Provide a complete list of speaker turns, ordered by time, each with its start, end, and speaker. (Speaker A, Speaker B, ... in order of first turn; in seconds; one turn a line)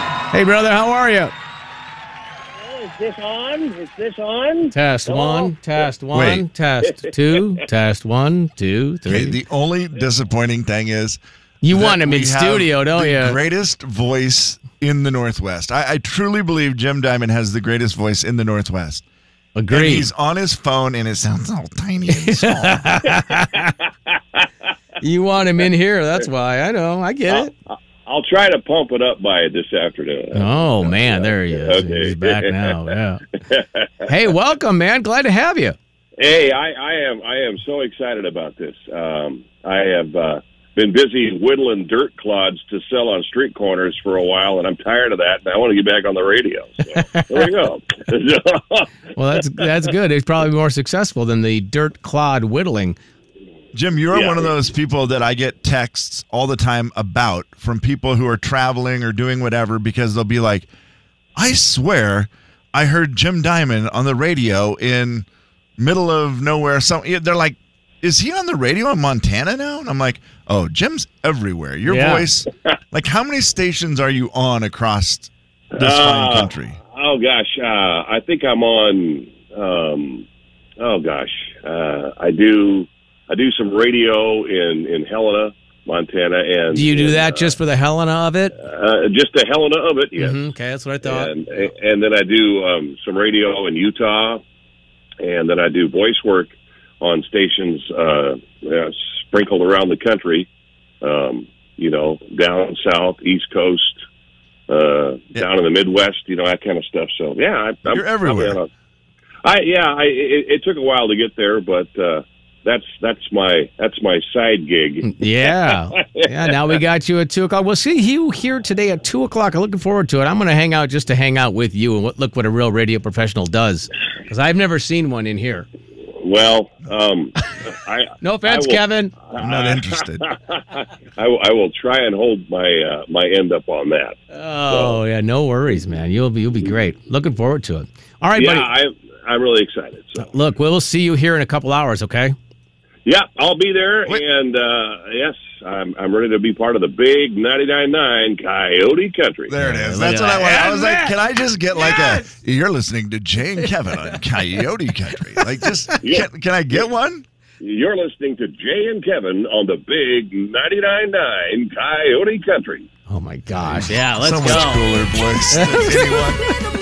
Speaker A: 0.3-1.3
Speaker B: 2.6-5.5
Speaker A: 4.7-9.4
Speaker C: 6.1-6.5
Speaker C: 9.1-19.0
Speaker A: 11.6-13.4
Speaker A: 19.6-20.1
Speaker C: 19.7-23.1
Speaker A: 22.1-23.8
Speaker A: 25.0-27.5
Speaker B: 27.3-32.8
Speaker A: 30.3-33.2
Speaker B: 33.5-34.0
Speaker A: 34.0-35.8
Speaker B: 36.2-48.9
Speaker A: 46.9-47.4
Speaker A: 49.1-53.0
Speaker C: 53.7-60.7
Speaker B: 54.1-54.5
Speaker C: 61.4-65.2
Speaker C: 65.8-76.8
Speaker A: 71.9-72.3
Speaker B: 75.7-80.2
Speaker B: 80.8-87.6
Speaker A: 86.7-88.5
Speaker B: 88.6-90.4
Speaker A: 90.2-91.3
Speaker B: 91.0-94.4
Speaker B: 95.2-100.5
Speaker B: 101.0-104.0
Speaker B: 104.7-108.7
Speaker C: 107.9-108.6
Speaker B: 109.4-116.8
Speaker A: 115.0-125.7
Speaker B: 126.2-135.0
Speaker A: 128.2-129.1
Speaker C: 129.3-130.3
Speaker A: 134.3-138.7
Speaker B: 138.3-140.3
Speaker A: 140.2-142.3
Speaker B: 143.0-149.5
Speaker C: 149.5-157.2
Speaker A: 149.6-151.2
Speaker A: 151.8-152.3
Speaker B: 156.0-156.8
Speaker B: 157.6-162.9
Speaker A: 163.1-164.9
Speaker C: 163.6-166.4
Speaker A: 165.5-166.5